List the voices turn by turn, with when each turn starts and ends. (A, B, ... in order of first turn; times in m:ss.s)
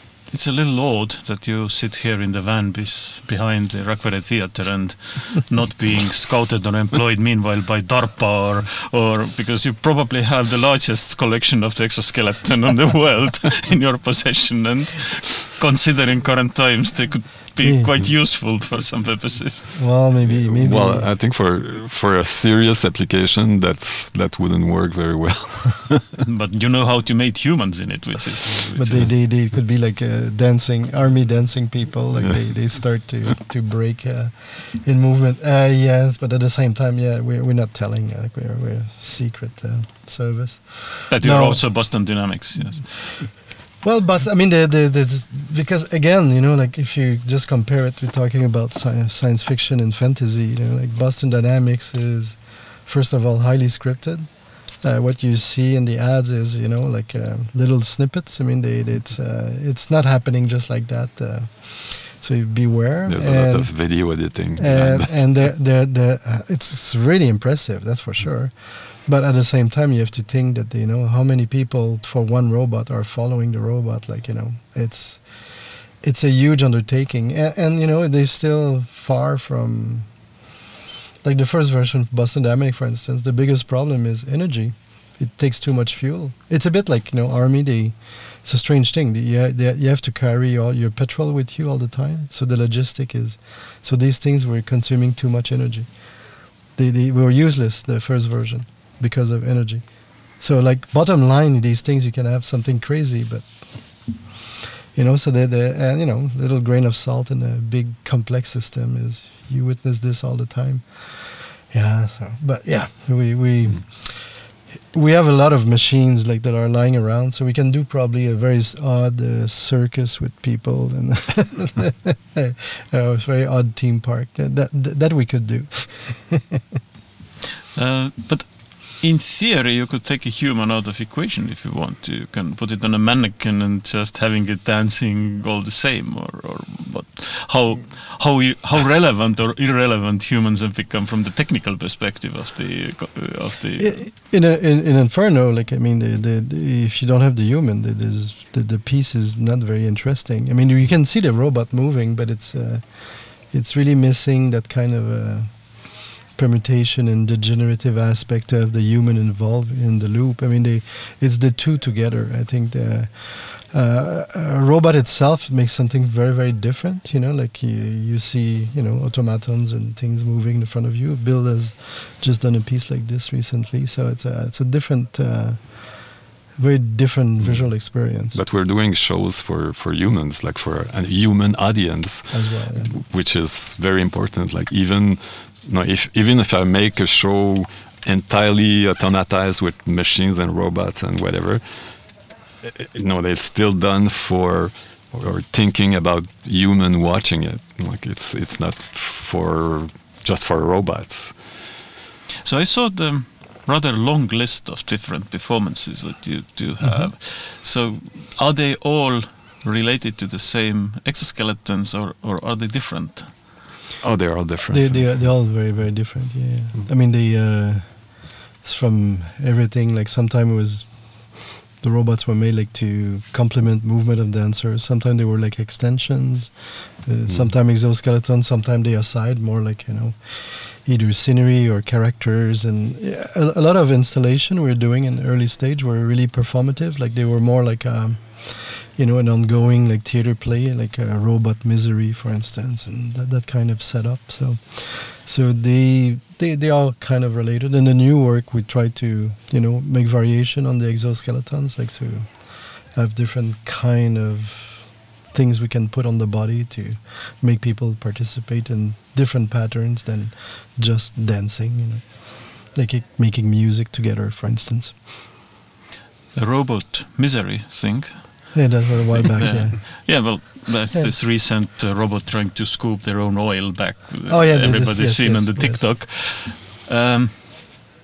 0:00.3-0:19.7 A
0:17.6-0:17.9 B
0:19.8-0:21.1 B
0:20.2-0:26.1 C
0:26.2-0:29.2 A
0:28.7-0:42.1 B
0:41.1-0:43.3 A
0:43.8-1:20.1 B
1:03.1-1:05.4 C
1:21.2-1:44.2 B
1:44.9-2:06.4 B
2:07.8-2:24.0 A
2:23.8-2:58.4 B
2:57.4-3:21.4 C
3:02.3-3:03.0 B
3:22.4-3:33.5 A
3:26.8-3:27.1 B
3:34.0-3:35.6 C
3:34.7-4:25.0 B
3:47.3-3:47.5 C
4:26.3-4:37.9 A
4:28.5-4:31.1 B
4:34.3-4:35.9 B